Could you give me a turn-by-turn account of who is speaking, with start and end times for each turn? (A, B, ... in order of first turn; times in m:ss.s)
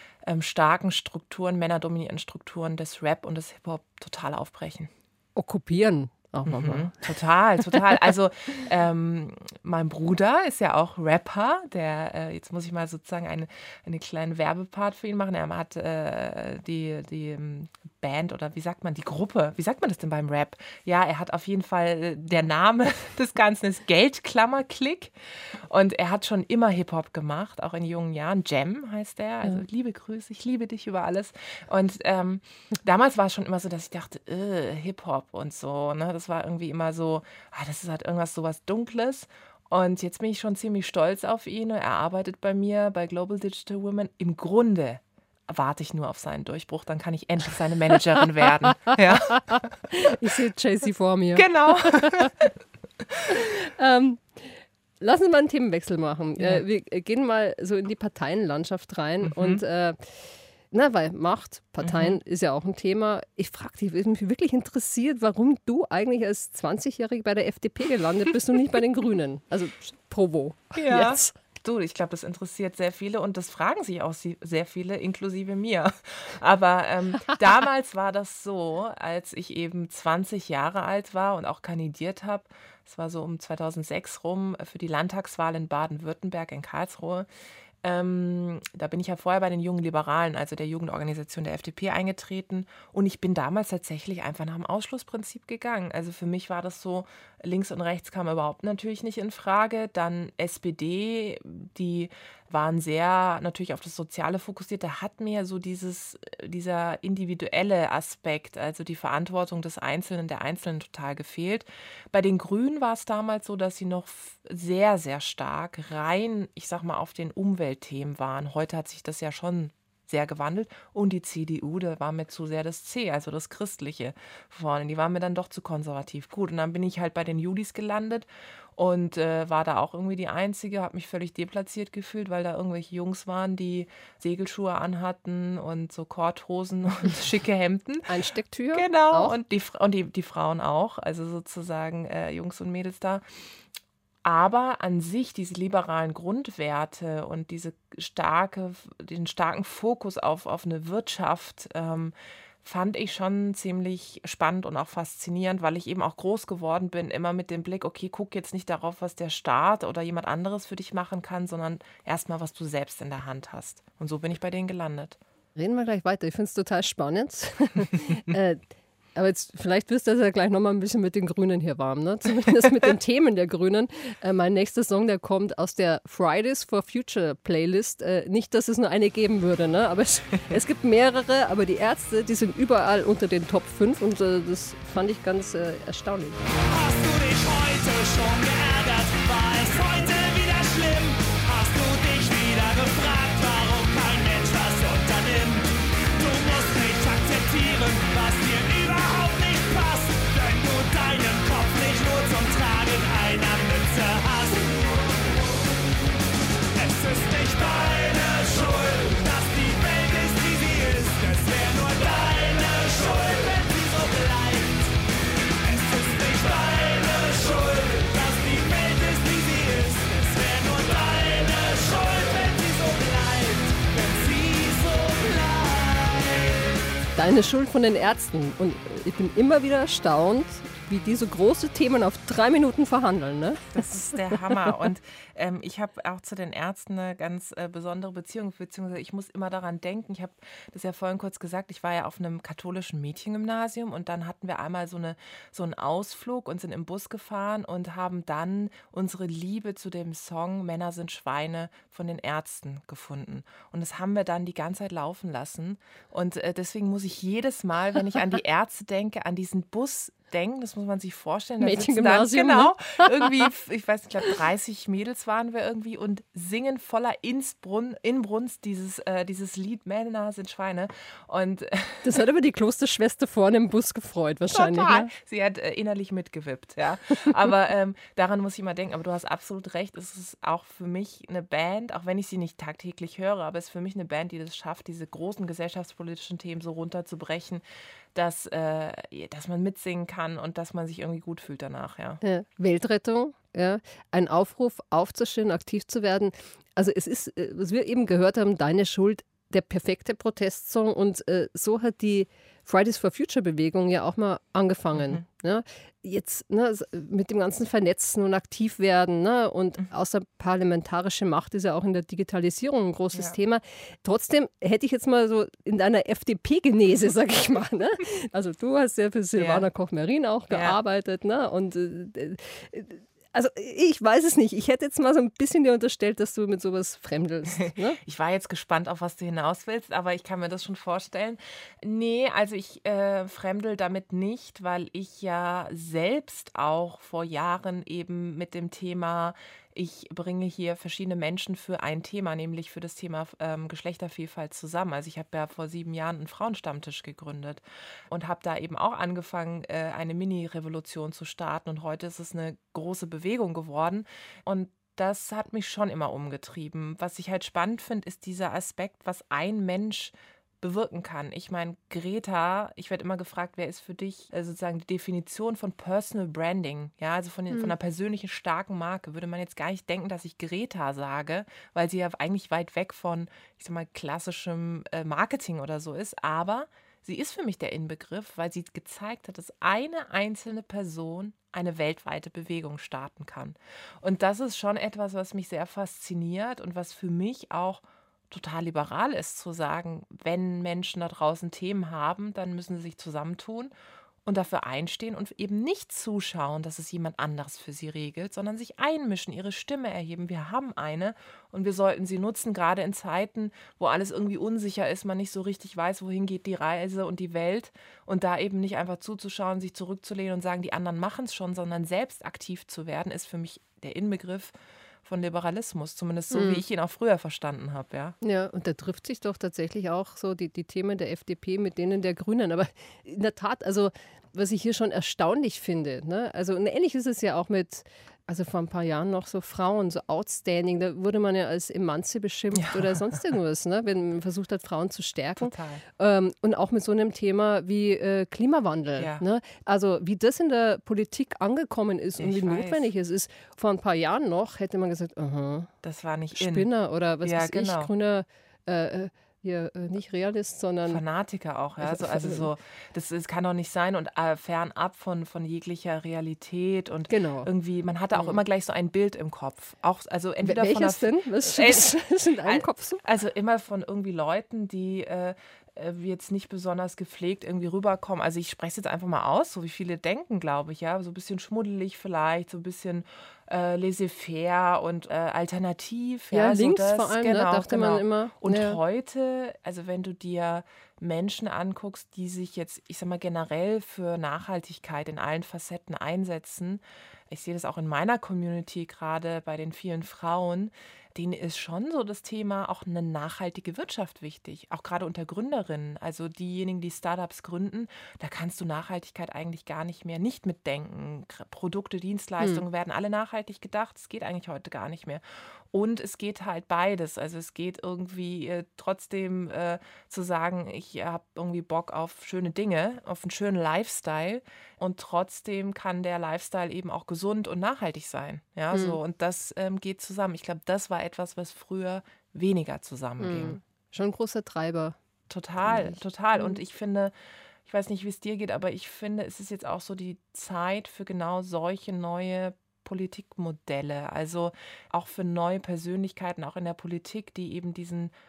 0:00.2-0:04.9 A
0:05.4-0:07.0 B
0:06.5-0:49.8 A
0:48.9-0:52.3 B
0:51.4-0:52.5 A
0:53.3-1:11.3 B
0:56.4-0:56.6 A
0:59.2-0:59.6 A
1:01.8-1:02.2 A
1:10.8-1:27.3 A
1:27.8-2:18.1 A
2:18.1-2:19.4 B
2:18.7-2:23.2 A
2:24.2-2:45.2 A
2:45.6-2:48.6 B
2:49.2-3:06.4 B
3:06.7-3:25.0 C
3:26.8-3:34.9 C
3:35.6-3:46.6 C
3:47.2-3:54.4 B
3:53.7-4:32.2 A
4:21.6-4:23.4 B
4:32.0-4:35.1 B
4:34.5-4:52.2 A
4:52.2-5:28.0 B
5:05.0-5:05.2 A
5:19.4-5:19.7 A
5:20.5-5:20.8 A
5:27.6-6:33.7 A
6:34.2-6:58.2 A
6:56.3-6:56.6 B
6:58.2-7:25.7 B
7:12.6-7:12.9 A
7:15.4-7:15.8 A
7:19.0-7:19.2 A
7:22.2-7:22.9 A
7:25.8-7:26.7 A
7:26.4-7:31.0 B
7:27.2-7:27.9 A
7:30.9-7:41.9 A
7:31.8-7:32.5 B
7:37.1-7:37.5 B
7:40.4-7:43.0 B
7:42.4-8:43.6 A
7:56.3-7:58.8 B
8:22.4-8:22.6 B
8:38.7-8:39.0 B
8:43.2-8:45.0 B
8:45.3-8:47.1 A
8:45.6-8:46.6 B
8:47.7-8:58.1 A